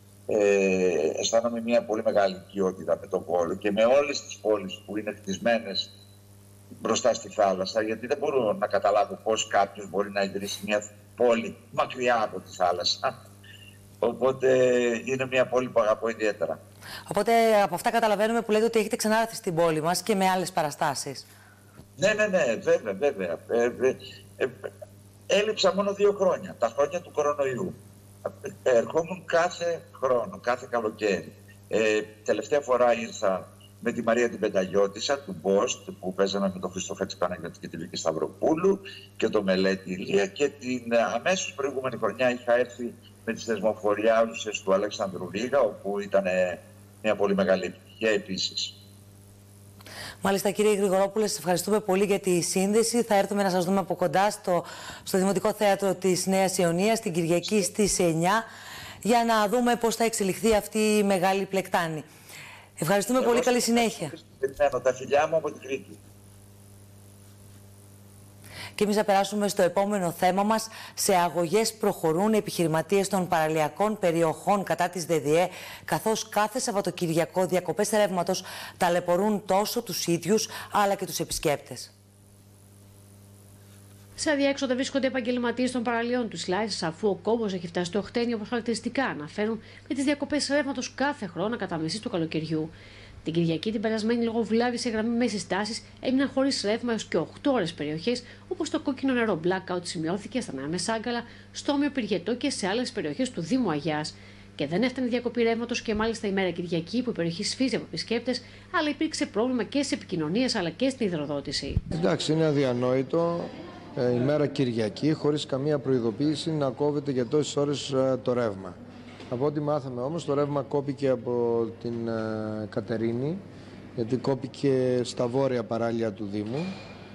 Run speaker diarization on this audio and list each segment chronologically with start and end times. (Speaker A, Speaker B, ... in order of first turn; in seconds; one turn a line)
Speaker A: 0.3-5.9
Speaker A: 6.8-13.1
Speaker A: 14.0-16.6
Speaker B: 17.1-21.3
Speaker A: 22.0-24.7
Speaker A: 25.3-48.7
Speaker B: 50.2-58.5
Speaker B: 59.0-62.1
Speaker B: 62.8-64.1
Speaker A: 63.2-66.0
Speaker B: 68.8-81.9
Speaker C: 84.2-92.7
Speaker C: 93.2-111.8
Speaker D: 111.9-118.8
Speaker D: 119.3-123.4
Speaker D: 124.0-126.8